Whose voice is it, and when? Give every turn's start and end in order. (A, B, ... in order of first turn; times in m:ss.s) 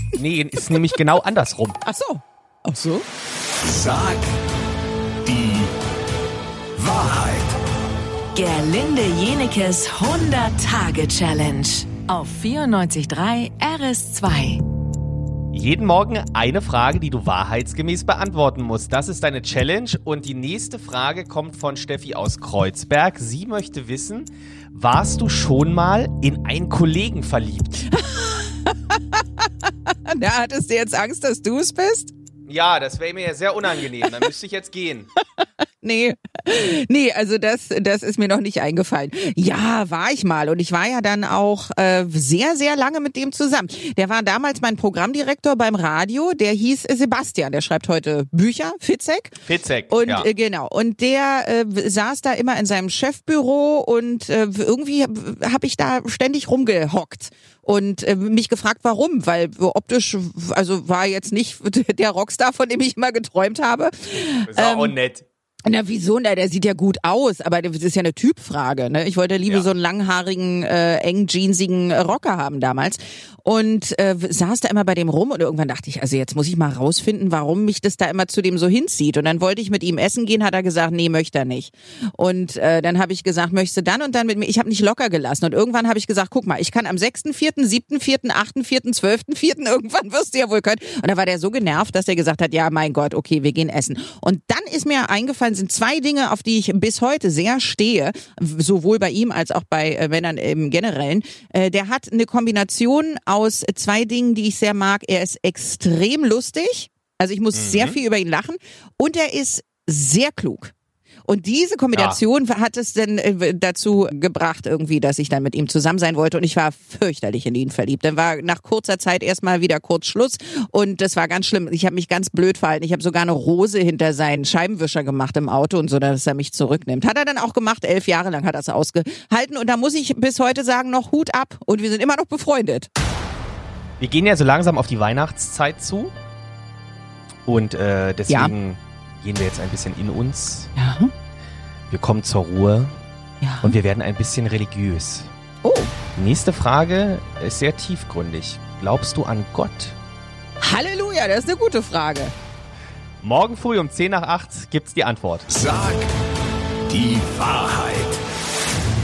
0:00.2-0:01.8 A
0:01.8-0:03.0 B
0:03.6-0:04.3 C
0:05.2-0:05.7 C
0:06.8-0:07.6 C
0:08.3-0:14.6 D
0:15.5-0:27.9 A
0:27.9-0:32.1 B
0:32.5-0:35.1 A
0:35.8-0:49.4 B
0:49.4-0:50.3 A
0:49.9-1:05.0 B
1:04.5-1:05.3 A
1:05.7-1:50.7 B
1:47.6-1:48.0 A
1:51.3-2:12.9 B
1:51.9-1:52.2 A
2:14.0-2:16.1 A
2:17.4-2:20.7 A
2:18.3-2:18.5 B
2:20.8-2:21.1 B
2:21.9-2:23.0 A
2:23.4-2:23.8 B
2:23.6-2:25.3 A
2:25.6-2:25.9 B
2:26.2-2:30.0 A
2:30.6-2:32.3 B
2:33.2-2:35.5 A
2:35.5-2:36.1 C
2:36.9-2:38.2 C